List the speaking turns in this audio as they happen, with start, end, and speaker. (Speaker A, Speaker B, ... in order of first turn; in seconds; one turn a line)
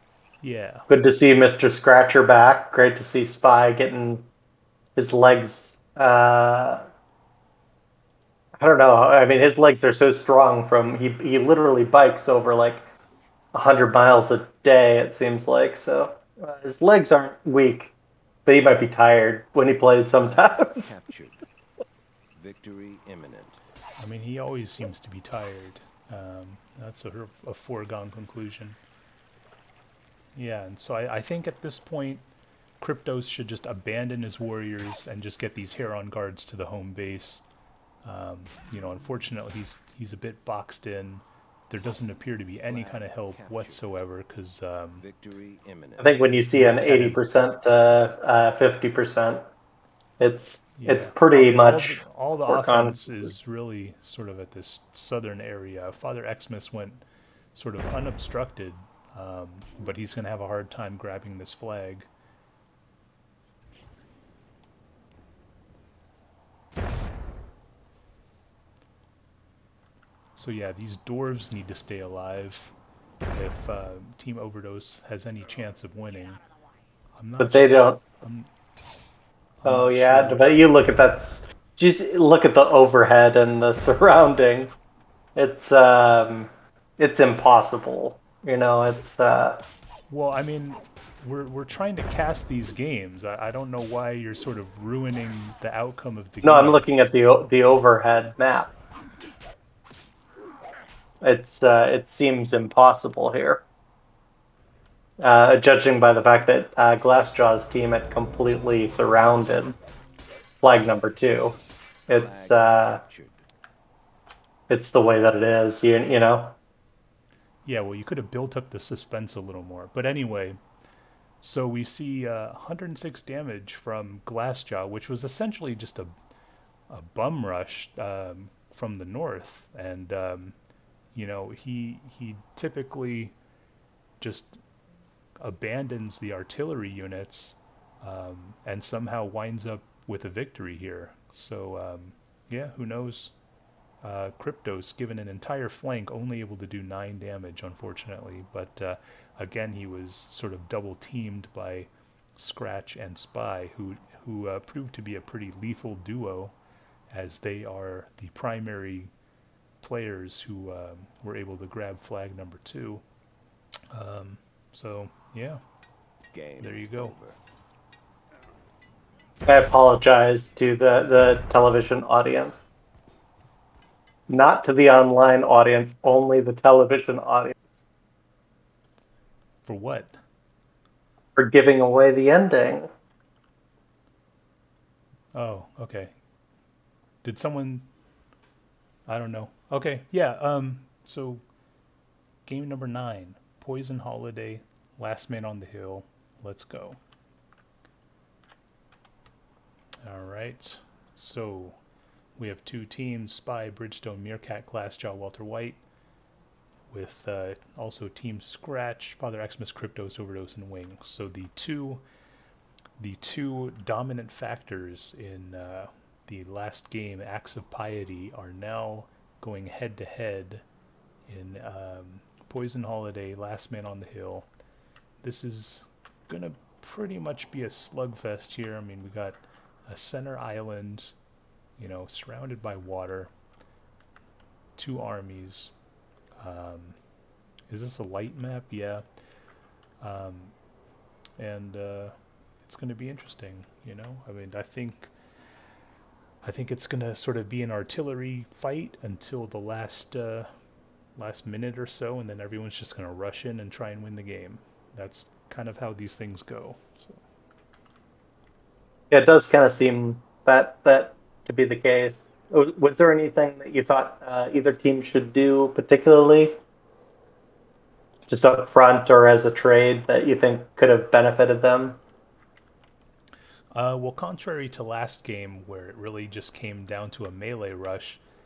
Speaker A: 0.4-0.9
Speaker B: 0.9-4.3
Speaker B: 5.0-6.8
Speaker B: 8.6-12.8
Speaker B: 13.5-17.9
Speaker B: 18.4-20.9
Speaker C: 20.2-21.4
Speaker C: 22.3-23.6
Speaker A: 24.0-28.8
Speaker A: 30.3-32.2
Speaker A: 32.8-37.4
Speaker A: 38.0-45.0
Speaker C: 42.6-43.9
Speaker C: 45.0-46.3
Speaker B: 46.0-49.4
Speaker A: 46.5-47.2
Speaker B: 50.2-53.3
Speaker A: 50.8-62.1
Speaker A: 70.3-72.7
Speaker A: 73.3-76.4
Speaker A: 77.2-78.5
Speaker B: 77.4-78.0
Speaker A: 79.6-80.6
Speaker B: 79.7-84.7
Speaker B: 85.3-89.6
Speaker A: 90.1-96.8
Speaker B: 96.4-98.7
Speaker B: 101.2-103.6
Speaker B: 105.2-109.8
Speaker B: 110.6-111.6
Speaker B: 112.1-113.0
Speaker C: 112.1-113.4
Speaker B: 114.7-116.6
Speaker A: 117.6-120.6
Speaker A: 121.4-126.1
Speaker A: 126.9-130.5
Speaker A: 131.1-133.3
Speaker A: 134.2-134.6
Speaker A: 135.4-143.3
Speaker A: 144.0-156.5
Speaker A: 157.1-159.1
Speaker A: 159.8-163.0
Speaker A: 163.9-165.6
Speaker C: 166.3-167.4
Speaker A: 166.6-167.2
Speaker B: 169.4-172.6
Speaker B: 174.3-177.7
Speaker A: 179.6-180.1
Speaker B: 181.3-182.9
Speaker A: 185.3-186.1
Speaker A: 187.2-187.9
Speaker A: 189.1-191.4
Speaker A: 192.4-197.0
Speaker A: 200.0-201.8
Speaker A: 202.4-205.8
Speaker A: 206.9-212.0
Speaker A: 213.0-220.6
Speaker A: 221.3-224.5
Speaker A: 225.2-231.1
Speaker A: 231.8-233.3
Speaker A: 234.8-235.7
Speaker A: 236.4-237.0
Speaker A: 237.7-239.0
Speaker A: 240.0-240.5
Speaker A: 241.4-245.1
Speaker A: 246.4-250.5
Speaker A: 251.2-257.2
Speaker B: 259.1-266.6
Speaker B: 268.3-272.0
Speaker A: 273.7-278.2